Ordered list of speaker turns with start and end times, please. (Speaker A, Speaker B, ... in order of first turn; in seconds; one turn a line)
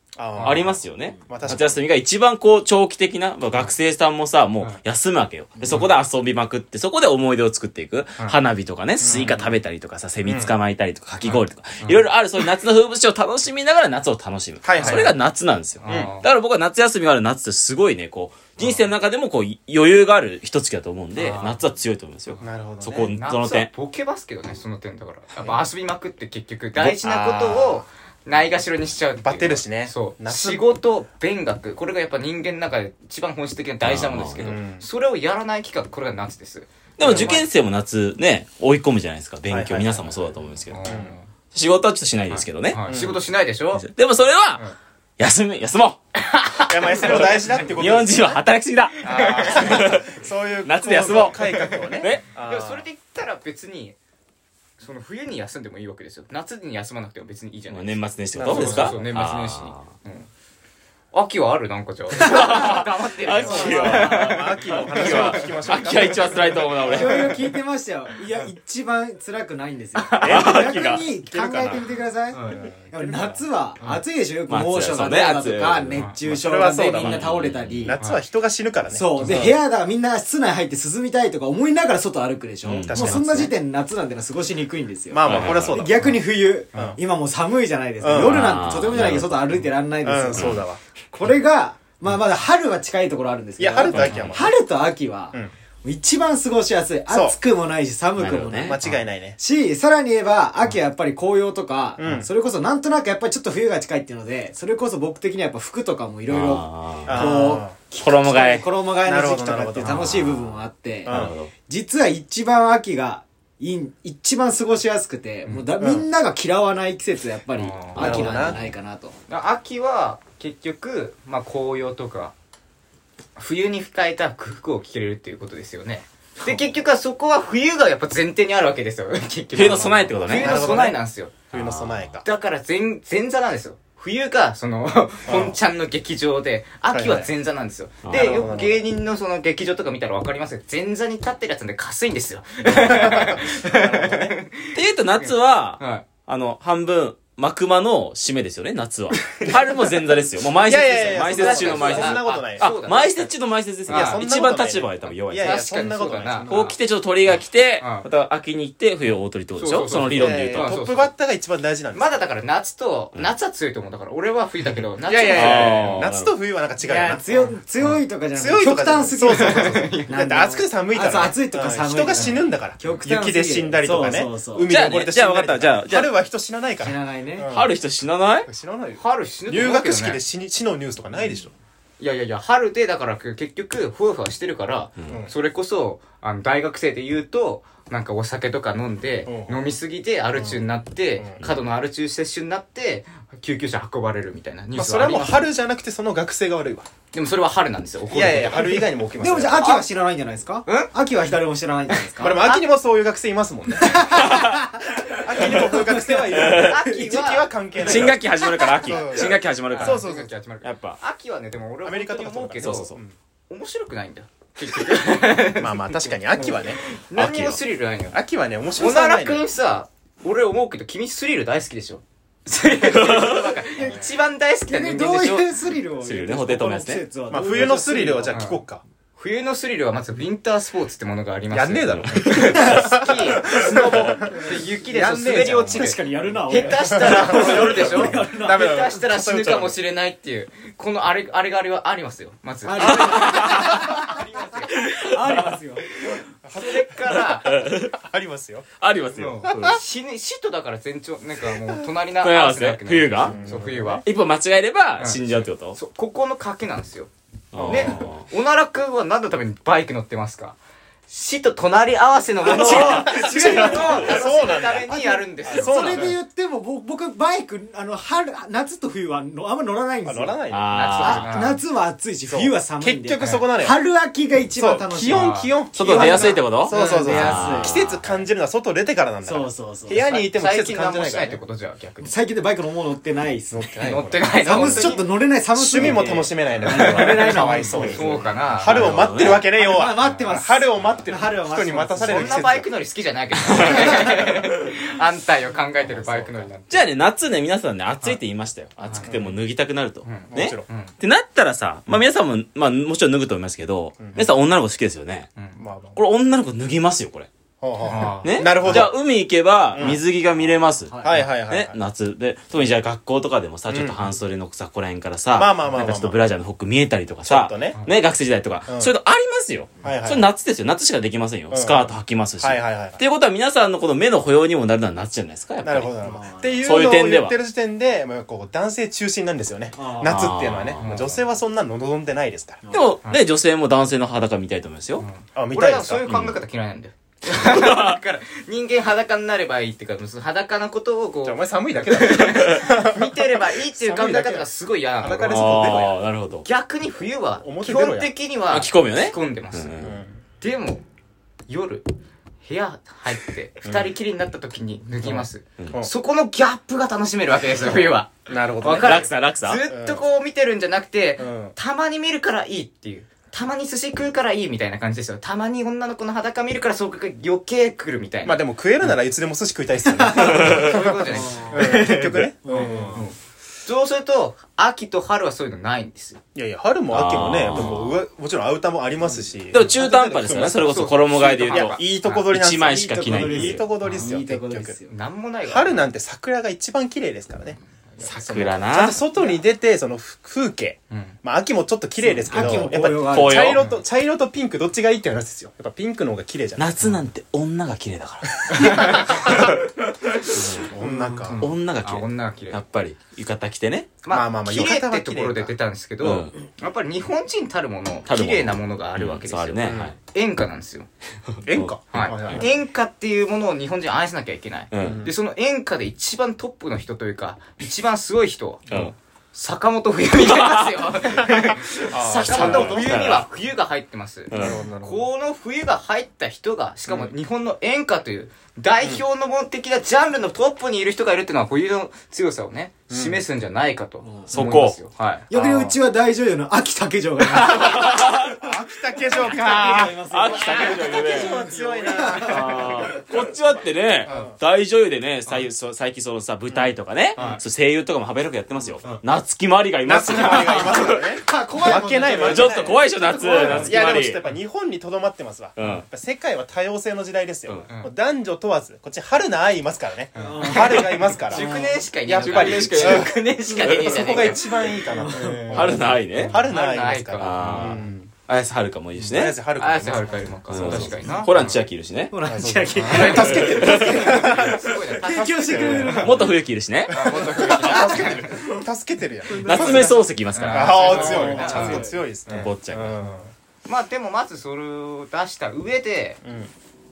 Speaker A: 0.2-1.8
Speaker B: 0.3-0.7
Speaker C: 0.4-23.7
Speaker B: 5.6-5.9
Speaker A: 9.0-9.5
Speaker B: 9.1-9.4
Speaker A: 10.2-10.5
Speaker B: 11.2-12.1
Speaker A: 14.6-15.1
Speaker B: 14.8-15.1
Speaker B: 15.8-16.3
Speaker B: 21.1-21.6
Speaker A: 22.4-23.1
Speaker B: 23.1-37.4
Speaker A: 26.8-27.8
Speaker A: 29.2-30.6
Speaker C: 33.8-34.6
Speaker A: 34.4-34.8
Speaker C: 37.0-42.8
Speaker A: 37.0-37.4
Speaker A: 39.5-40.3
Speaker B: 40.7-41.3
Speaker A: 40.8-41.1
Speaker B: 42.3-43.9
Speaker A: 42.9-43.2
Speaker C: 43.7-44.6
Speaker C: 45.2-46.0
Speaker B: 46.3-47.4
Speaker C: 46.6-50.1
Speaker A: 46.7-48.4
Speaker A: 49.0-52.9
Speaker B: 49.0-49.8
Speaker C: 50.6-52.2
Speaker B: 51.0-54.0
Speaker B: 54.8-60.3
Speaker C: 57.7-59.9
Speaker A: 58.3-59.0
Speaker B: 61.1-65.6
Speaker C: 62.1-67.4
Speaker A: 63.4-67.3
Speaker D: 66.8-78.0
Speaker B: 70.0-70.4
Speaker A: 70.2-71.9
Speaker C: 70.2-71.0
Speaker B: 72.3-72.7
Speaker A: 72.5-73.4
Speaker C: 74.5-76.2
Speaker A: 76.2-79.6
Speaker C: 76.9-78.0
Speaker D: 78.9-90.6
Speaker C: 82.6-83.5
Speaker A: 82.7-83.5
Speaker A: 85.1-86.1
Speaker C: 85.2-85.8
Speaker A: 88.0-88.6
Speaker C: 88.1-89.5
Speaker A: 90.0-90.8
Speaker C: 90.3-90.6
Speaker D: 91.1-98.8
Speaker A: 93.6-94.5
Speaker C: 93.8-94.3
Speaker A: 97.1-97.4
Speaker C: 98.2-99.0
Speaker A: 98.5-99.4
Speaker D: 99.4-119.2
Speaker A: 102.0-102.3
Speaker C: 106.3-107.3
Speaker A: 107.0-107.8
Speaker C: 108.0-108.7
Speaker A: 109.0-110.1
Speaker C: 109.8-111.5
Speaker A: 111.0-111.3
Speaker A: 115.8-116.1
Speaker B: 117.6-118.5
Speaker A: 117.9-118.6
Speaker B: 119.3-122.3
Speaker B: 123.3-131.4
Speaker C: 129.5-130.9
Speaker A: 130.2-131.0
Speaker C: 131.5-132.2
Speaker A: 131.5-132.2
Speaker B: 132.2-146.1
Speaker A: 135.2-135.6
Speaker A: 136.9-137.3
Speaker C: 138.0-138.4
Speaker A: 138.1-138.8
Speaker A: 142.7-144.4
Speaker C: 144.7-155.7
Speaker A: 150.6-152.8
Speaker B: 151.0-153.3
Speaker B: 153.9-154.2
Speaker A: 153.9-156.7
Speaker B: 155.4-156.8
Speaker C: 156.5-160.8
Speaker B: 157.8-158.1
Speaker B: 159.6-161.1
Speaker A: 160.1-162.2
Speaker B: 161.9-166.0
Speaker A: 165.0-167.5
Speaker C: 165.3-166.3
Speaker D: 166.8-174.7
Speaker A: 168.3-177.7
Speaker B: 169.2-170.4
Speaker C: 174.7-176.1
Speaker D: 176.8-177.5
Speaker C: 177.5-178.5
Speaker A: 178.4-181.5
Speaker B: 179.0-180.2
Speaker B: 182.0-195.4
Speaker A: 189.2-189.7
Speaker A: 190.3-190.6
Speaker A: 194.7-196.9
Speaker B: 197.1-198.9
Speaker A: 198.1-199.8
Speaker D: 199.2-202.4
Speaker B: 199.6-199.8
Speaker B: 201.9-202.6
Speaker A: 202.2-204.2
Speaker D: 203.8-206.6
Speaker C: 204.1-204.6
Speaker A: 205.1-208.3
Speaker C: 206.3-206.8
Speaker B: 206.4-212.9
Speaker C: 207.8-210.0
Speaker A: 208.8-210.3
Speaker C: 210.6-211.0
Speaker A: 211.8-213.1
Speaker C: 212.6-213.0
Speaker B: 213.5-218.2
Speaker A: 215.6-216.8
Speaker C: 217.1-217.6
Speaker A: 218.1-219.4
Speaker B: 218.8-225.5
Speaker C: 222.9-223.5
Speaker A: 223.8-224.1
Speaker D: 224.7-228.4
Speaker C: 226.0-227.0
Speaker A: 227.3-228.8
Speaker B: 228.3-228.6
Speaker B: 229.2-244.8
Speaker A: 231.5-236.0
Speaker C: 232.3-232.8
Speaker D: 235.7-238.8
Speaker A: 236.6-239.8
Speaker D: 242.6-244.2
Speaker C: 242.8-244.1
Speaker C: 244.8-245.6
Speaker D: 245.0-246.2
Speaker A: 246.4-248.7
Speaker B: 246.5-247.7
Speaker C: 247.1-247.9
Speaker C: 248.8-249.8
Speaker B: 249.1-254.0
Speaker C: 252.2-253.4
Speaker A: 253.2-254.0
Speaker C: 254.0-255.8
Speaker B: 255.0-257.1
Speaker C: 257.5-258.2
Speaker A: 257.5-258.0
Speaker B: 257.6-266.1
Speaker A: 262.4-266.2
Speaker C: 262.4-264.1
Speaker D: 262.5-270.4
Speaker A: 270.0-270.9
Speaker C: 270.5-271.3
Speaker B: 270.7-271.6
Speaker D: 271.0-277.8
Speaker A: 272.3-273.8
Speaker A: 274.6-281.4
Speaker B: 275.0-275.5
Speaker C: 275.7-278.0
Speaker D: 279.2-280.0
Speaker B: 279.9-282.1
Speaker D: 282.0-283.6
Speaker A: 283.5-285.0
Speaker B: 283.8-285.1
Speaker D: 284.4-288.2
Speaker A: 285.6-292.7
Speaker B: 286.7-290.9
Speaker C: 288.6-289.5
Speaker D: 289.5-292.5
Speaker B: 292.0-296.8
Speaker C: 293.3-294.7
Speaker D: 293.6-294.0
Speaker A: 295.8-296.5
Speaker C: 296.7-305.3
Speaker B: 298.8-299.1
Speaker A: 299.0-299.3
Speaker B: 300.0-300.9
Speaker A: 300.3-300.6
Speaker A: 304.0-304.3
Speaker A: 305.6-306.0
Speaker C: 305.9-307.3
Speaker A: 307.6-309.0
Speaker B: 307.9-308.9
Speaker C: 308.2-326.1
Speaker A: 309.7-310.0
Speaker D: 310.9-311.2
Speaker A: 311.0-311.8
Speaker A: 313.7-314.1
Speaker A: 315.3-316.2
Speaker A: 317.2-317.8
Speaker A: 318.7-318.9
Speaker A: 319.8-320.3
Speaker A: 321.5-323.0
Speaker A: 325.6-332.6
Speaker D: 326.0-326.7
Speaker C: 326.6-327.3
Speaker D: 329.7-330.3
Speaker C: 330.0-330.9
Speaker B: 330.8-331.2
Speaker C: 332.7-335.0
Speaker B: 335.0-345.9
Speaker A: 335.3-336.1
Speaker C: 336.1-336.4
Speaker C: 337.3-338.0
Speaker A: 341.2-344.5
Speaker A: 345.0-346.0
Speaker C: 345.3-346.4
Speaker B: 346.4-349.8
Speaker A: 347.4-348.1
Speaker C: 348.5-349.9
Speaker A: 349.8-350.2
Speaker B: 350.4-350.8
Speaker B: 351.5-351.9
Speaker B: 352.4-368.4
Speaker A: 353.6-353.9
Speaker A: 355.0-355.9
Speaker A: 358.3-359.0
Speaker C: 358.7-359.6
Speaker A: 359.7-360.0
Speaker A: 361.2-361.5
Speaker A: 368.2-373.0
Speaker D: 370.0-370.3
Speaker B: 370.1-371.9
Speaker C: 370.2-370.9
Speaker D: 371.1-373.0
Speaker B: 372.9-376.2
Speaker A: 376.3-384.8
Speaker C: 376.9-378.0
Speaker C: 379.5-383.6
Speaker B: 380.6-382.3
Speaker D: 382.9-384.9
Speaker B: 384.9-385.8
Speaker A: 385.5-396.9
Speaker C: 388.0-389.0
Speaker B: 390.9-391.1
Speaker D: 392.0-393.6
Speaker C: 392.4-393.6
Speaker C: 396.6-399.5
Speaker B: 398.6-399.0
Speaker A: 398.6-399.3
Speaker C: 400.2-400.7
Speaker A: 400.5-401.4
Speaker B: 401.2-402.6
Speaker C: 401.4-403.9
Speaker B: 404.0-410.9
Speaker A: 404.1-405.5
Speaker C: 406.0-406.3
Speaker C: 408.1-409.9
Speaker A: 409.6-409.9
Speaker C: 411.3-411.7
Speaker A: 411.4-412.5
Speaker B: 411.9-435.2
Speaker C: 414.7-415.1
Speaker A: 414.8-415.1
Speaker C: 420.2-420.9
Speaker A: 421.9-422.9
Speaker C: 421.9-423.2
Speaker C: 424.3-424.6
Speaker A: 424.3-425.1
Speaker A: 426.9-427.1
Speaker A: 432.9-433.2
Speaker D: 434.0-434.6
Speaker C: 434.3-434.8
Speaker D: 435.3-438.3
Speaker C: 435.3-435.7
Speaker C: 437.3-438.4
Speaker A: 437.7-443.0
Speaker D: 439.0-443.0
Speaker C: 440.1-441.3
Speaker B: 440.6-442.8
Speaker C: 442.2-451.2
Speaker A: 444.1-444.4
Speaker A: 446.5-447.4
Speaker B: 447.1-447.4
Speaker A: 449.8-452.8
Speaker D: 450.2-453.8
Speaker C: 452.1-454.2
Speaker A: 453.3-468.1
Speaker C: 455.6-455.8
Speaker B: 460.1-464.7
Speaker D: 460.1-461.8
Speaker C: 462.1-464.3
Speaker D: 464.7-466.2
Speaker C: 465.5-466.4
Speaker B: 466.2-467.8
Speaker C: 467.2-469.4
Speaker A: 469.0-471.6
Speaker B: 469.6-471.5
Speaker C: 470.5-472.1
Speaker D: 472.1-476.3
Speaker A: 472.2-476.3
Speaker B: 472.8-476.3
Speaker C: 473.1-474.2
Speaker C: 475.9-477.5
Speaker B: 476.9-478.3
Speaker A: 476.9-483.3
Speaker D: 477.5-478.4
Speaker D: 479.2-480.1
Speaker C: 479.4-483.0
Speaker B: 480.3-481.9
Speaker D: 480.7-482.0
Speaker B: 483.6-486.2
Speaker A: 486.2-486.5